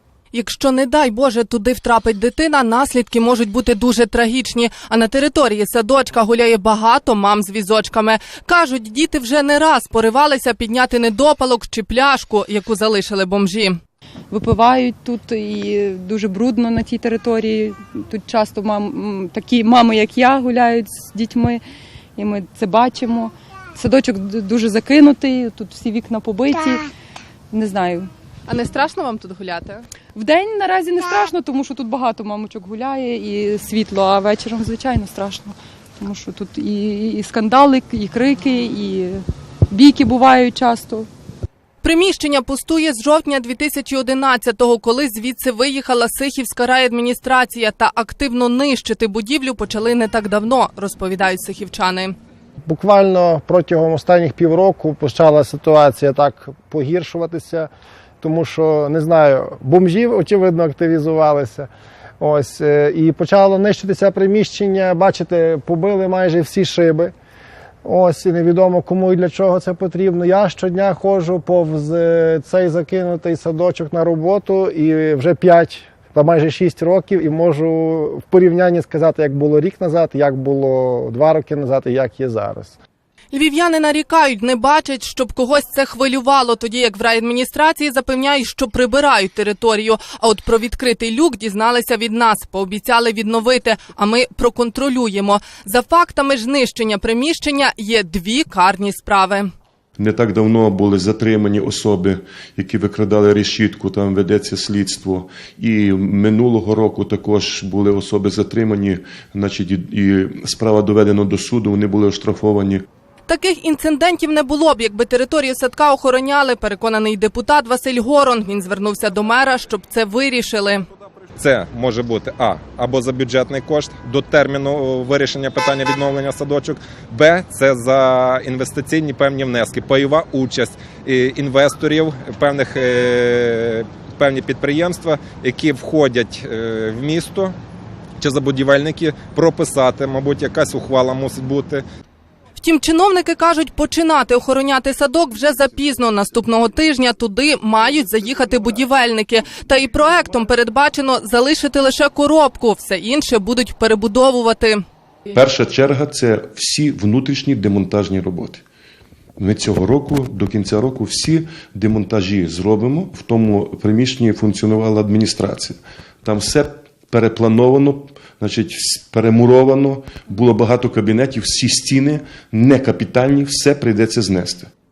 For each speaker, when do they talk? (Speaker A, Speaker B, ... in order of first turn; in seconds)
Speaker A: 0.3-13.8, 28.5-29.8, 41.8-52.1, 83.3-99.5, 113.3-120.8, 142.6-154.8
Speaker B: 14.3-21.6, 22.2-26.9, 27.5-28.1, 30.1-41.1
Speaker C: 52.6-57.7, 58.2-61.7, 62.2-67.1, 67.8-82.7
Speaker D: 100.0-112.8, 155.3-158.6, 159.4-174.7
Speaker E: 121.4-137.5, 138.2-141.8